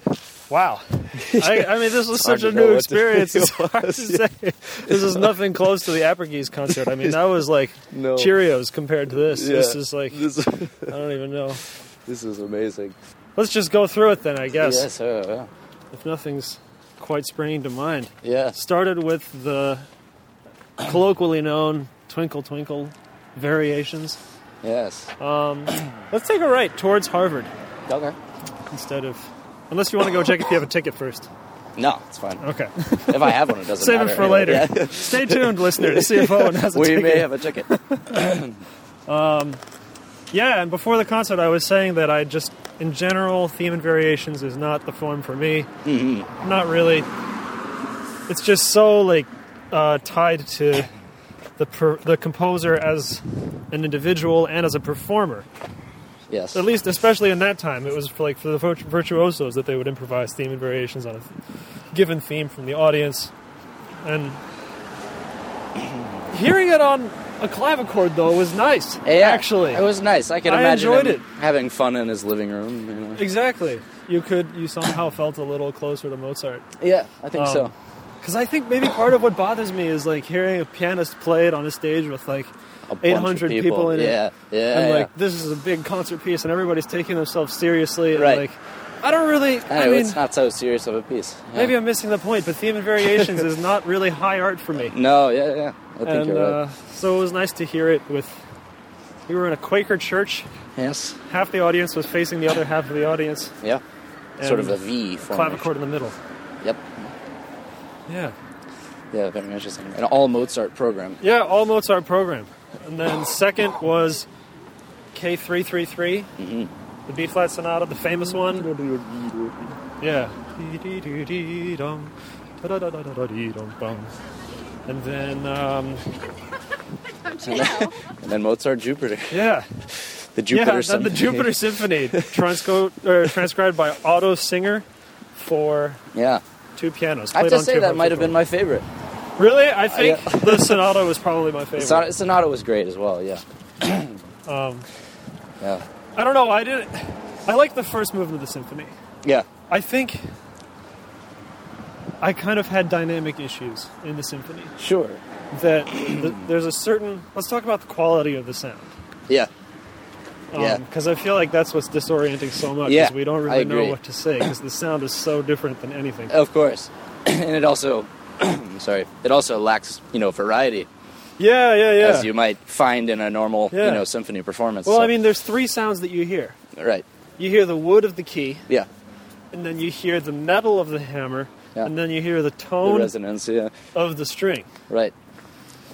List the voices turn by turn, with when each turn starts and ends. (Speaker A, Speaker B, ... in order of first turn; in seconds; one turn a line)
Speaker A: 0.5-10.2
Speaker B: 1.2-4.2
Speaker B: 4.8-5.4
Speaker B: 7.9-8.4
Speaker B: 9.2-10.9
Speaker A: 10.9-11.6
Speaker B: 12.1-13.0
Speaker A: 13.4-14.8
Speaker B: 14.6-15.5
Speaker A: 15.9-19.9
Speaker B: 18.2-18.6
Speaker A: 20.8-24.2
Speaker B: 24.6-25.1
Speaker A: 25.2-27.5
Speaker B: 27.9-28.2
Speaker A: 28.7-31.3
Speaker B: 31.8-38.6
Speaker A: 32.4-38.2
Speaker A: 39.1-39.6
Speaker A: 40.3-45.7
Speaker B: 45.8-46.3
Speaker A: 46.4-47.1
Speaker A: 48.3-50.9
Speaker A: 51.6-55.5
Speaker B: 56.3-56.6
Speaker A: 56.5-61.4
Speaker A: 61.9-63.3
Speaker A: 64.0-64.4
Speaker A: 66.3-69.8
Speaker B: 69.0-73.2
Speaker A: 70.4-71.2
Speaker A: 73.2-76.7
Speaker B: 76.8-77.7
Speaker A: 77.3-77.7
Speaker A: 78.2-84.2
Speaker B: 82.9-85.1
Speaker A: 84.7-90.2
Speaker B: 88.1-88.5
Speaker B: 89.7-91.8
Speaker A: 91.6-94.9
Speaker B: 94.8-96.6
Speaker A: 96.0-98.4
Speaker A: 99.3-100.5
Speaker B: 100.8-101.2
Speaker A: 101.3-103.5
Speaker A: 104.4-106.2
Speaker B: 104.4-105.7
Speaker B: 106.6-106.9
Speaker A: 108.1-108.3
Speaker B: 109.1-111.2
Speaker A: 111.2-114.3
Speaker A: 115.1-116.3
Speaker B: 116.4-116.7
Speaker A: 117.1-118.7
Speaker B: 118.4-119.7
Speaker A: 120.0-124.1
Speaker A: 124.9-126.1
Speaker B: 127.4-129.5
Speaker A: 129.3-129.7
Speaker B: 130.1-132.2
Speaker A: 130.5-136.0
Speaker B: 136.1-136.4
Speaker A: 136.8-138.4
Speaker B: 137.3-138.9
Speaker A: 139.4-142.0
Speaker B: 139.9-140.9
Speaker B: 141.8-144.2
Speaker A: 144.5-144.9
Speaker A: 146.2-148.9
Speaker A: 149.7-150.3
Speaker A: 152.2-154.8
Speaker B: 154.8-155.2
Speaker A: 155.5-158.9
Speaker A: 160.5-166.3
Speaker B: 160.5-160.8
Speaker B: 162.8-164.0
Speaker B: 166.3-170.9
Speaker A: 171.4-172.3
Speaker B: 172.0-175.1
Speaker A: 173.7-174.0
Speaker A: 174.8-176.6
Speaker B: 176.8-177.1
Speaker A: 177.4-178.7
Speaker A: 179.5-183.1
Speaker B: 182.8-183.7
Speaker A: 183.9-184.7